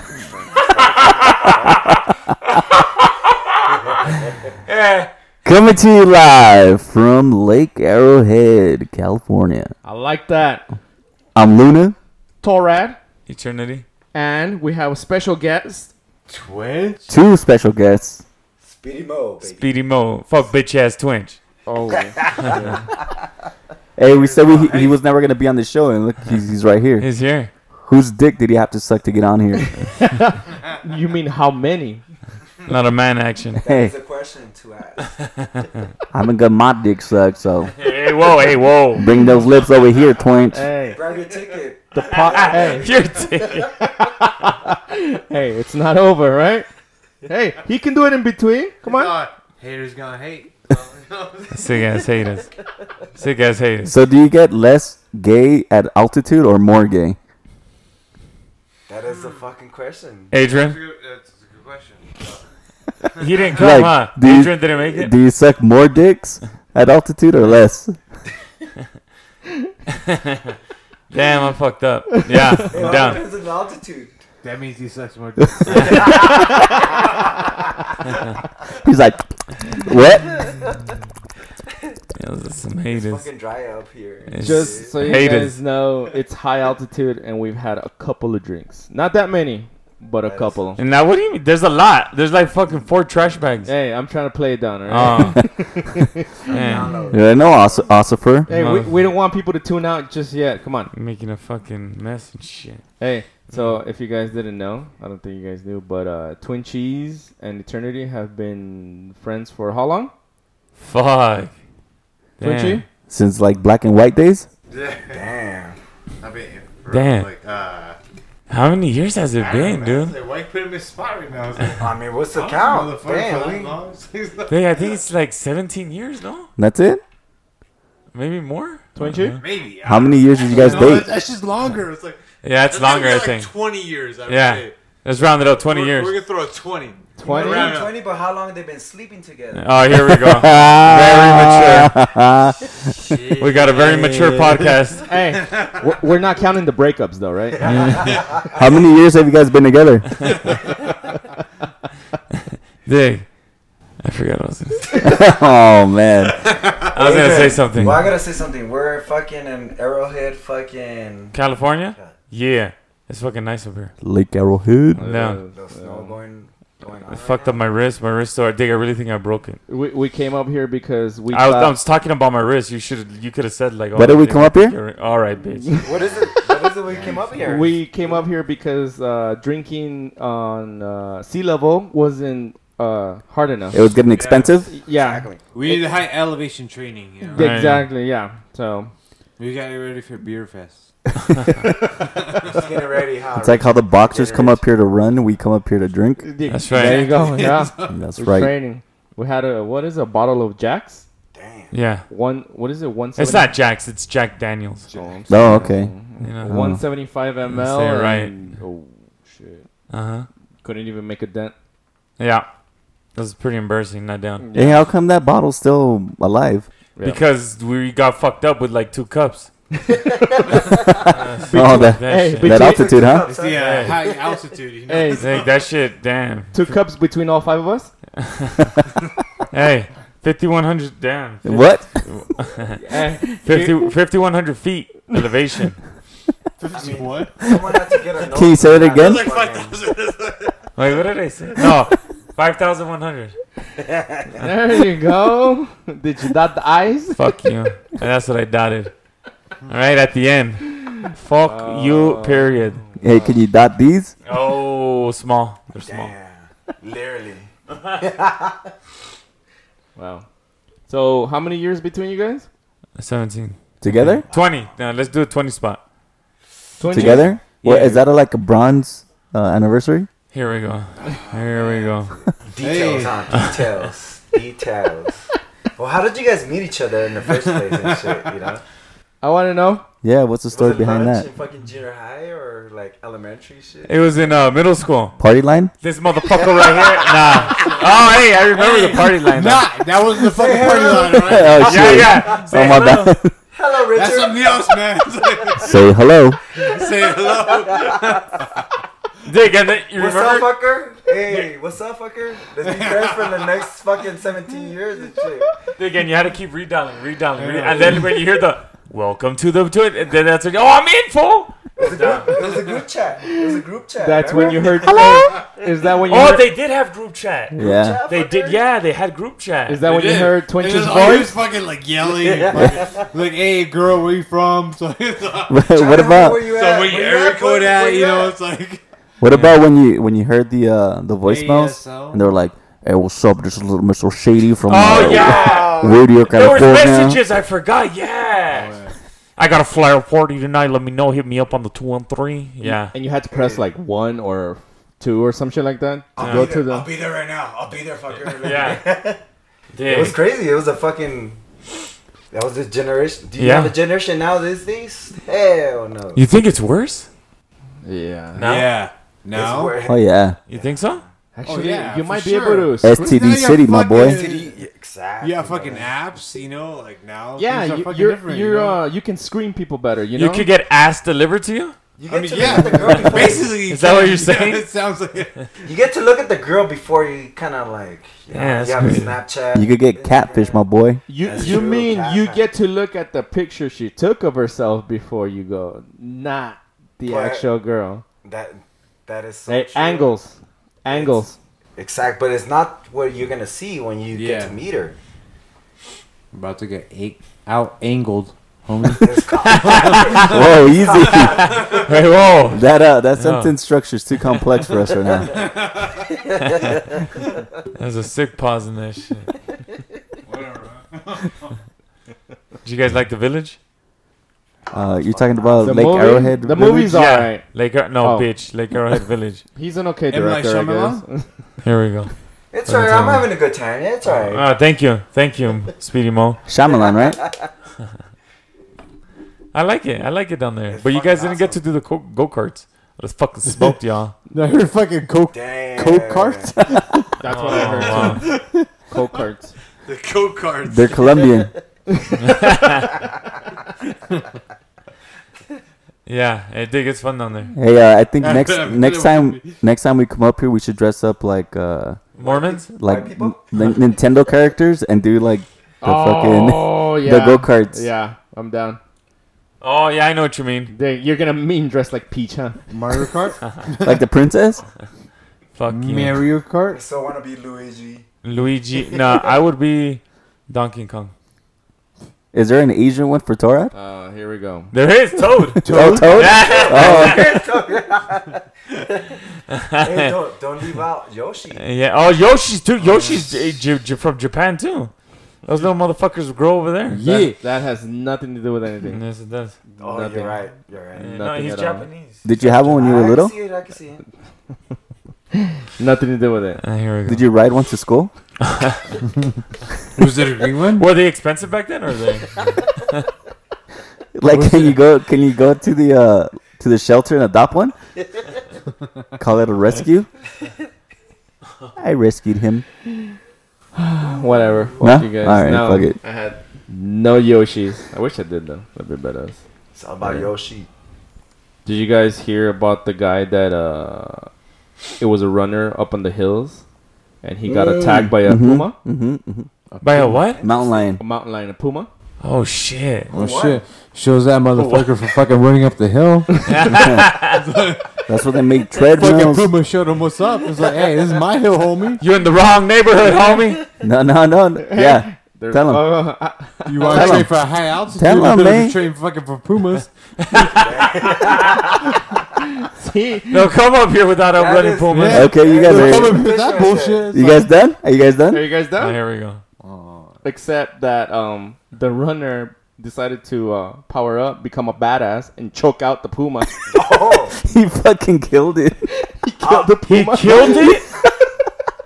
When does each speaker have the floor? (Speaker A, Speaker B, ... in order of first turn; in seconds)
Speaker A: 0.6-1.7, 18.6-19.7, 21.9-23.2, 33.6-35.3, 40.9-43.3, 58.9-60.3, 72.7-74.1, 75.8-76.3, 82.9-84.9, 90.2-90.8, 96.4-97.9, 115.1-115.8, 121.8-123.8, 137.2-139.9, 147.5-148.7, 156.9-161.3, 165.5-167.6, 175.8-178.2, 184.9-185.4, 192.4-194.6, 201.3-201.7, 220.2-220.6, 222.4-224.4, 236.7-239.8, 243.8-244.5, 255.8-258.7, 264.3-264.7, 272.5-275.2, 275.8-278.6, 280.5-284.0, 286.2-287.3, 290.2-292.8, 293.5-295.6, 296.6-298.2, 299.9-305.5, 311.8-315.4, 317.6-318.6, 322.0-323.1, 325.7-328.4, 334.9-336.1, 343.3-343.7, 346.1-349.2, 349.8-351.4, 352.3-356.2, 359.3-361.1, 363.9-365.9, 372.0-373.6, 375.6-382.4, 387.0-387.5, 388.2-390.1, 390.9-391.2, 391.8-395.0, 399.0-401.8, 414.7-415.7, 422.5-424.5, 426.7-427.5, 430.7-431.6, 435.3-436.5, 452.2-453.8, 466.7-468.1, 476.3-479.2, 479.8-481.6, 489.8-491.2, 492.4-494.0, 514.1-514.8, 519.7-520.7, 527.5-527.8, 530.3-530.9, 533.1-533.6, 550.4-552.0, 554.3-557.2, 566.7-567.4, 569.4-570.3
Speaker B: 0.6-2.0, 2.6-4.0, 4.7-5.1, 13.2-13.8, 19.4-21.4, 27.0-27.5, 32.6-33.6, 37.8-39.0, 42.1-43.7, 51.5-52.5, 53.1-53.9, 60.3-60.8, 63.2-65.1, 69.9-70.5, 71.1-73.2, 82.2-83.3, 84.3-85.6, 90.8-93.7, 94.9-95.4, 96.5-97.0, 98.5-99.0, 100.9-102.8, 103.5-103.8, 110.8-111.5, 112.4-112.8, 116.9-117.3, 118.5-120.1, 124.5-126.5, 128.1-129.4, 132.4-133.5, 134.3-136.2, 139.5-141.9, 143.4-145.1, 147.6-148.0, 152.8-153.3, 154.0-155.1, 156.9-158.0, 161.3-163.9, 165.1-165.4, 167.1-169.6, 171.3-175.9, 187.3-187.9, 196.5-197.1, 201.7-202.1, 203.2-204.9, 206.2-206.6, 207.5-208.4, 209.9-210.3, 212.2-212.5, 213.1-214.4, 217.0-219.5, 221.1-222.5, 223.6-223.9, 225.2-226.8, 228.2-228.7, 229.5-232.8, 233.4-235.8, 240.8-243.3, 247.2-248.9, 249.7-252.8, 254.2-256.1, 263.0-265.8, 270.3-272.1, 283.9-285.1, 285.8-289.7, 291.6-293.1, 299.2-300.5, 305.8-312.3, 315.0-315.3, 316.1-317.6, 318.1-319.8, 329.2-329.6, 334.6-338.7, 339.4-342.9, 346.2-346.5, 348.2-348.8, 349.7-350.2, 353.4-353.8, 356.1-357.1, 358.4-358.8, 360.5-361.0, 370.1-371.8, 373.7-374.7, 378.3-379.2, 399.4-400.4, 401.5-403.5, 407.7-409.3, 412.6-413.6, 416.9-419.4, 421.6-422.1, 422.6-423.3, 424.1-426.4, 429.5-434.1, 437.2-438.3, 442.2-442.9, 446.1-447.5, 452.2-452.7, 459.6-460.7, 465.6-466.2, 468.2-471.1, 474.7-477.4, 479.5-480.1, 481.6-484.9, 485.4-487.0, 488.9-489.6, 491.0-492.2, 496.6-497.3, 498.4-498.8, 500.8-503.1, 529.8-530.4, 532.2-533.1, 534.5-534.9, 536.5-537.4, 542.0-543.6, 550.2-551.6, 553.3-555.3, 558.8-559.4, 569.9-570.8
Speaker C: 5.4-9.7, 11.3-11.9, 17.1-18.2, 24.0-27.1, 27.8-29.8, 33.6-33.9, 36.1-37.8, 39.0-40.6, 53.8-57.2, 63.5-68.0, 78.8-80.5, 97.1-98.5, 113.1-114.5, 126.6-127.0, 129.8-131.1, 140.0-142.7, 148.5-150.4, 155.0-156.4, 164.0-165.1, 173.9-174.8, 183.7-184.7, 193.4-196.2, 197.9-198.5, 205.3-205.9, 206.4-206.8, 214.5-216.7, 220.9-223.3, 231.4-232.0, 238.3-239.3, 253.0-254.1, 263.8-264.2, 266.9-270.1, 280.0-281.2, 285.2-285.7, 291.1-293.3, 295.6-296.4, 317.5-318.0, 325.5-326.5, 329.2-337.2, 359.8-360.4, 362.8-364.2, 379.5-381.0, 400.2-401.6, 402.5-405.5, 414.7-417.0, 426.4-427.2, 440.6-441.5, 447.5-452.0, 452.8-457.8, 463.8-464.6, 472.3-473.7, 475.6-477.4, 492.2-493.3, 497.1-498.1, 504.1-507.7, 509.2-510.1, 511.8-512.6, 514.8-516.0, 527.7-529.5, 530.4-531.0, 536.7-537.1, 538.1-539.5, 543.8-545.8, 546.9-548.8, 555.1-556.3, 557.1-558.5, 567.4-568.9
Speaker D: 9.8-10.6, 12.4-13.0, 14.1-15.9, 21.6-22.8, 29.9-32.0, 40.5-41.0, 41.9-42.9, 43.8-46.6, 47.2-49.2, 84.4-90.8, 93.6-96.2, 98.5-100.9, 103.0-110.1, 112.4-112.8, 128.9-129.4, 130.5-131.1, 137.2-137.8, 145.1-147.8, 164.9-166.2, 169.7-171.8, 175.6-175.9, 177.4-183.8, 184.7-185.3, 187.3-188.9, 196.2-201.0, 202.1-203.5, 204.9-209.6, 210.6-211.5, 214.4-214.8, 216.9-217.2, 221.5-223.0, 224.9-225.4, 226.5-227.9, 232.8-233.8, 244.3-247.2, 251.4-253.4, 259.9-260.2, 260.9-262.5, 266.8-268.0, 279.2-279.8, 314.0-316.5, 319.7-321.4, 342.6-346.9, 357.8-358.5, 361.3-363.2, 367.4-370.5, 381.1-388.0, 389.5-391.4, 415.6-417.4, 418.0-418.3, 419.6-421.3, 437.2-438.4, 438.9-439.5, 455.8-458.8, 460.7-462.7, 473.7-474.7, 487.0-489.0, 489.7-490.4, 490.9-491.9, 495.6-496.6, 513.7-519.4, 520.0-520.3, 521.6-524.3, 525.0-526.6, 527.2-528.7, 531.0-531.9, 544.6-547.3, 552.4-553.5, 558.3-559.0, 560.2-566.5, 568.9-570.8
Speaker E: 16.3-17.1, 24.1-25.0, 48.8-52.0, 59.0-59.4, 60.5-62.4, 63.1-63.7, 74.4-76.2, 114.7-115.3, 116.2-118.0, 119.4-125.0, 129.4-134.7, 135.5-138.0, 143.0-144.7, 145.4-145.9, 156.4-157.3, 176.9-177.4, 184.1-184.6, 185.5-187.5, 189.4-190.9, 192.1-192.7, 196.7-197.9, 204.9-205.6, 223.2-225.6, 236.6-237.5, 238.7-240.7, 271.0-271.7, 272.6-273.2, 277.4-278.2, 287.3-292.1, 293.9-295.8, 296.5-298.6, 302.6-303.5, 307.4-308.3, 312.4-312.8, 319.8-328.8, 331.2-332.3, 338.5-338.9, 358.4-359.8, 361.4-364.6, 365.2-368.8, 372.1-375.4, 394.1-394.5, 396.3-400.3, 401.3-401.8, 405.2-406.1, 410.2-411.5, 420.1-421.0, 434.3-439.2, 439.9-441.2, 448.2-449.6, 462.7-464.0, 465.7-466.8, 475.6-476.6, 482.8-483.2, 486.9-487.4, 499.9-500.9, 504.3-504.8, 529.7-530.2, 533.1-537.9, 538.9-542.0, 546.6-549.9, 554.9-557.5, 559.6-560.1